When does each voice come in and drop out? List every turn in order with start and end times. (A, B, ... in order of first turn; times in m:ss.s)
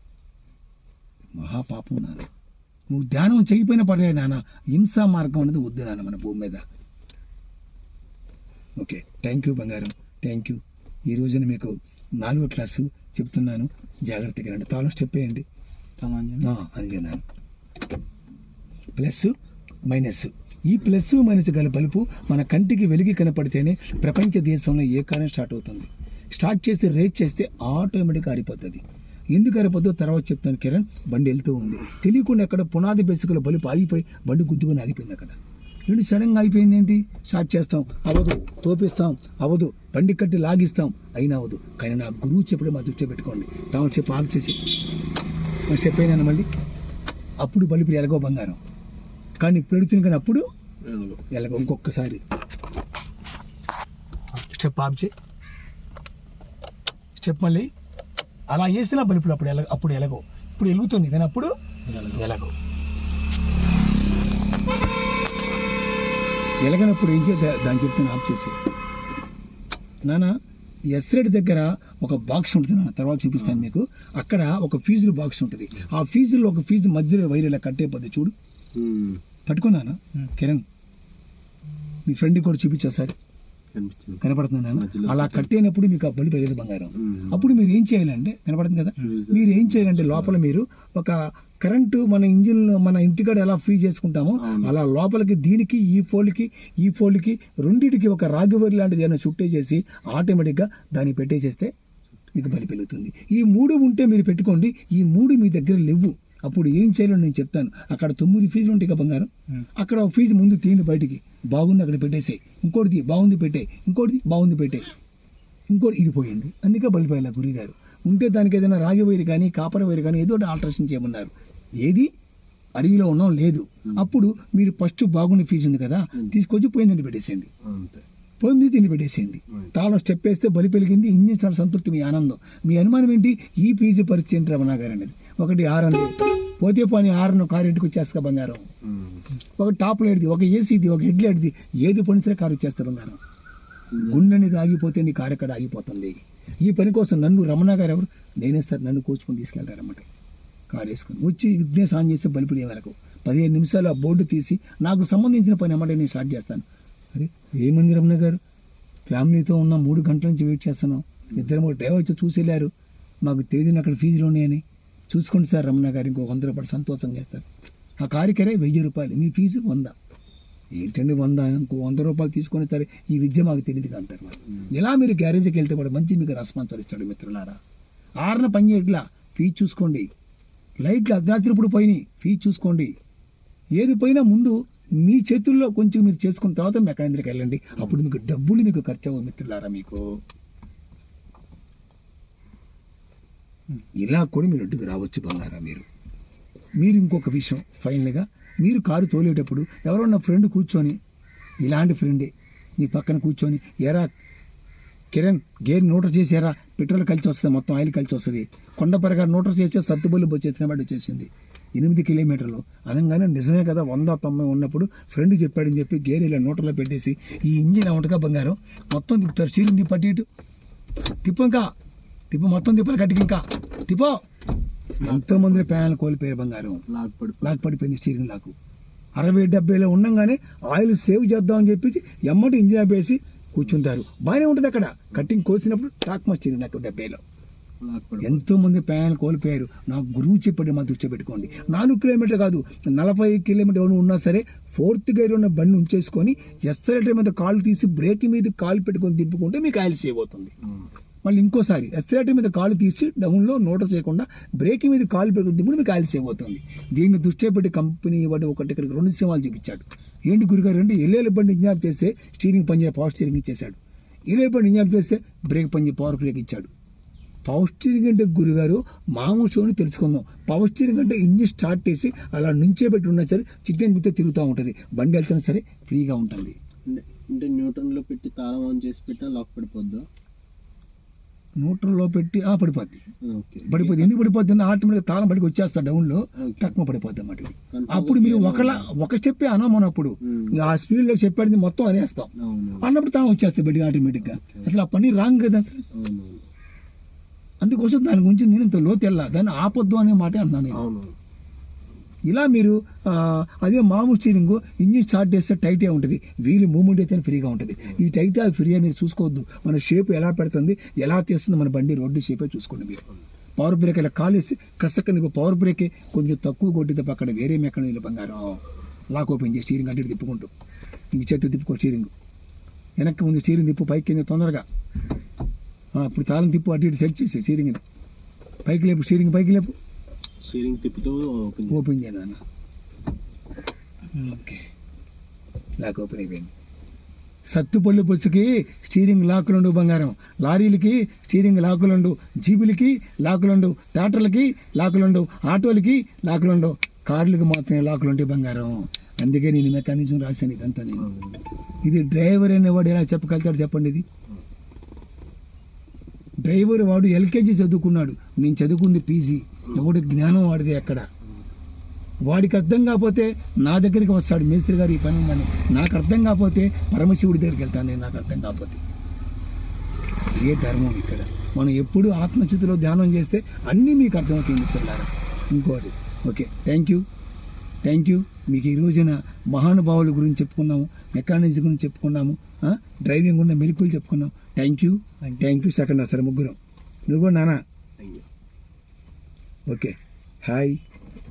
0:01.3-0:02.3 A
0:02.9-0:06.6 A
0:08.8-0:15.4 A
0:16.0-0:16.4 B
0:16.4-0:17.2 A
0:19.0-0:19.3 A
0:19.9-0:44.6 A
0:45.7-0:46.5 A
0:47.4-0:48.6 A
0:49.4-0:50.4 A
0:50.8-0:51.2 B
0:51.3-0:52.2 A
0:54.5-0:55.1 A
0:57.2-0:57.7 A
0:58.5-1:02.5 A
1:01.9-1:02.2 B
1:06.6-1:08.6 A
1:10.0-1:10.3 A
1:10.9-1:18.3 A
1:13.4-1:13.7 B
1:18.7-1:19.2 B
1:19.4-1:20.6 A
1:22.1-1:23.1 A
1:23.7-1:25.5 B
1:24.2-1:41.7 A
1:27.0-1:27.6 B
1:29.0-1:30.4 B
1:34.4-1:34.7 B
1:42.3-1:54.8 A
1:55.7-2:01.3 A
2:01.8-2:02.1 A
2:02.8-2:07.5 A
2:07.6-2:08.0 B
2:08.4-2:18.6 A
2:18.8-2:19.2 B
2:19.4-2:23.2 A
2:23.9-2:24.2 B
2:24.0-2:30.1 A
2:30.7-2:38.4 A
2:39.1-2:42.7 A
2:43.2-2:47.4 A
2:48.0-2:49.9 A
2:50.8-2:57.6 A
2:58.2-3:00.1 A
3:00.8-3:02.9 A
3:03.8-3:10.1 A
3:14.0-3:15.8 A
3:16.8-3:21.0 A
3:21.6-3:24.1 A
3:25.1-3:40.2 A
3:41.2-3:41.7 A
3:42.3-3:44.2 A
3:45.0-3:45.8 B
3:45.0-3:46.8 A
3:46.9-3:47.7 B
3:47.4-3:48.5 A
3:49.2-3:57.2 A
3:57.8-3:58.5 B
3:58.2-4:10.5 A
4:10.6-4:10.9 B
4:11.2-4:23.8 A
4:24.3-4:26.7 A
4:27.4-4:36.6 A
4:36.9-4:40.0 B
4:41.6-4:43.0 A
4:43.2-4:44.2 B
4:43.7-4:55.8 A
4:46.4-4:46.8 B
4:47.7-4:48.9 B
4:50.2-4:50.6 B
4:52.4-4:52.9 B
4:54.2-4:54.7 B
4:55.9-4:56.5 B
4:57.6-5:00.8 A
5:00.7-5:01.1 B
5:02.3-5:13.0 A
5:13.6-5:20.5 A
5:21.1-5:22.1 A
5:23.0-5:24.6 A
5:25.9-5:27.8 A
5:28.6-5:29.7 A
5:30.4-5:31.8 B
5:31.7-5:32.4 A
5:34.1-5:34.6 A
5:35.8-5:36.5 A
5:37.5-5:51.1 A
5:51.0-5:51.4 B
5:51.8-5:54.0 A
5:56.4-6:01.0 A
6:02.3-6:08.8 A
6:10.3-6:17.0 A
6:17.8-6:26.6 A
6:27.1-6:27.6 A
6:28.0-6:28.2 B
6:29.7-6:30.8 A